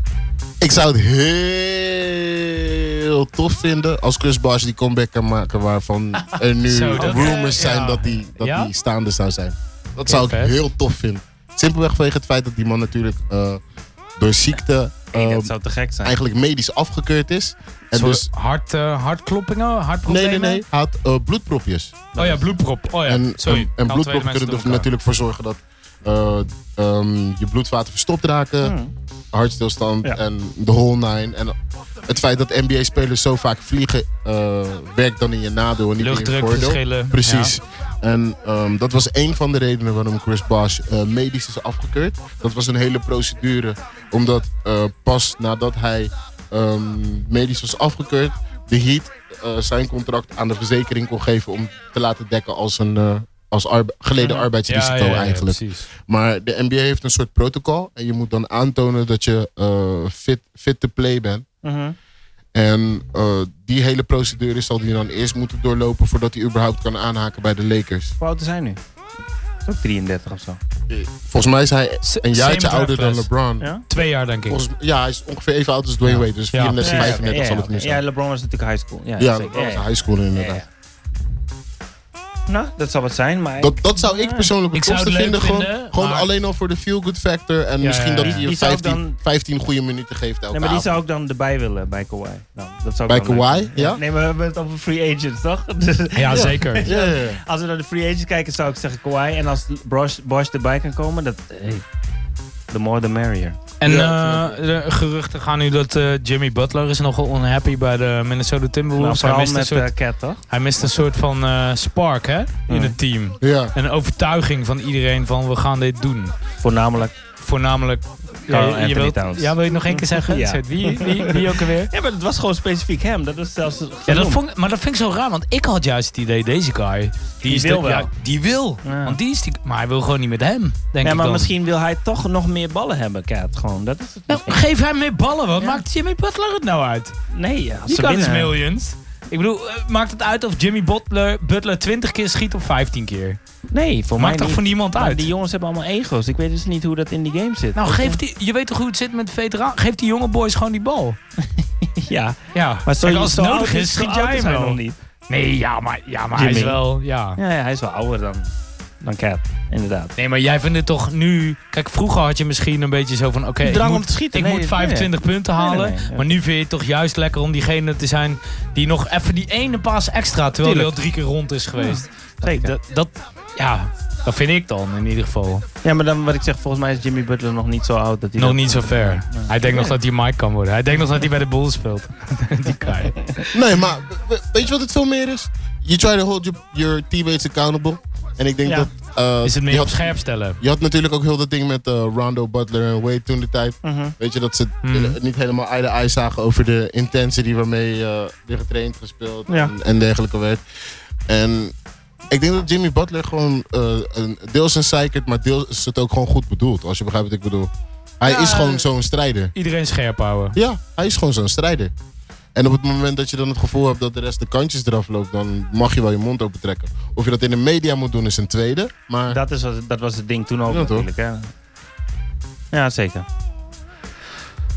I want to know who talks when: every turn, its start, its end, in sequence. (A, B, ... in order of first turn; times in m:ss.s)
0:00.6-0:13.6 A
0:06.6-0:08.7 B
0:07.0-0:07.4 C
0:10.1-0:10.6 B
0:14.2-0:15.5 A
0:15.1-0:16.2 C
0:16.0-0:18.3 A
0:17.9-0:20.6 B
0:20.0-0:22.1 A
0:22.1-0:22.4 C
0:22.2-0:24.9 B
0:23.0-0:28.8 A
0:28.6-0:28.9 C
0:29.3-0:31.5 A
0:32.1-1:01.4 A
0:36.0-0:37.5 B
0:54.2-0:54.5 C
0:54.6-0:55.9 B
1:01.6-1:02.0 C
1:02.5-1:08.1 A
1:08.2-1:08.8 C
1:09.6-1:10.6 C
1:10.9-1:13.7 A
1:12.0-1:13.3 B
1:13.9-1:14.6 B
1:14.5-1:18.0 A
1:16.5-1:17.1 B
1:16.8-1:20.6 C
1:19.2-1:20.6 A
1:22.5-1:24.5 C
1:23.6-1:30.9 A
1:24.7-1:26.3 B
1:27.8-1:28.5 B
1:28.2-1:29.2 C
1:30.5-1:41.8 C
1:33.1-1:34.0 A
1:36.1-1:36.9 B
1:36.3-1:37.4 A
1:42.7-1:43.6 C
1:43.8-1:49.9 B
1:43.8-1:44.6 A
1:49.0-1:50.4 C
1:50.5-1:56.4 B
1:52.7-1:53.0 C
1:53.4-1:53.7 A
1:56.6-1:57.2 C
1:57.4-2:01.9 B
1:58.5-2:04.4 C
2:04.1-2:11.5 B
2:07.4-2:08.1 C
2:08.8-2:09.2 C
2:11.0-2:14.6 C
2:14.3-2:17.1 B
2:17.3-2:18.5 C
2:17.9-2:23.4 B
2:23.7-2:28.2 C
2:24.2-2:25.3 B
2:27.7-2:31.2 B
2:31.4-2:35.0 C
2:32.5-2:37.4 B
2:36.3-2:36.8 C
2:37.4-2:38.5 C
2:39.0-2:40.1 C
2:40.2-2:55.6 B
2:43.6-2:46.3 C
2:50.6-2:50.9 C
2:51.8-2:52.7 C
2:55.8-2:59.9 C
2:58.4-3:03.3 B
3:03.5-3:10.1 A
3:09.4-3:10.6 B
3:10.6-3:20.6 A
3:13.8-3:14.1 C
3:14.8-3:15.2 B
3:19.5-3:19.7 C
3:21.3-3:21.7 A
3:22.3-3:29.5 A
3:28.3-3:28.7 B
3:28.4-3:28.8 C
3:29.5-3:30.6 B
3:30.5-3:31.9 A
3:32.5-3:39.4 A
3:39.3-3:41.5 C
3:40.7-3:41.1 A
3:42.7-3:43.2 C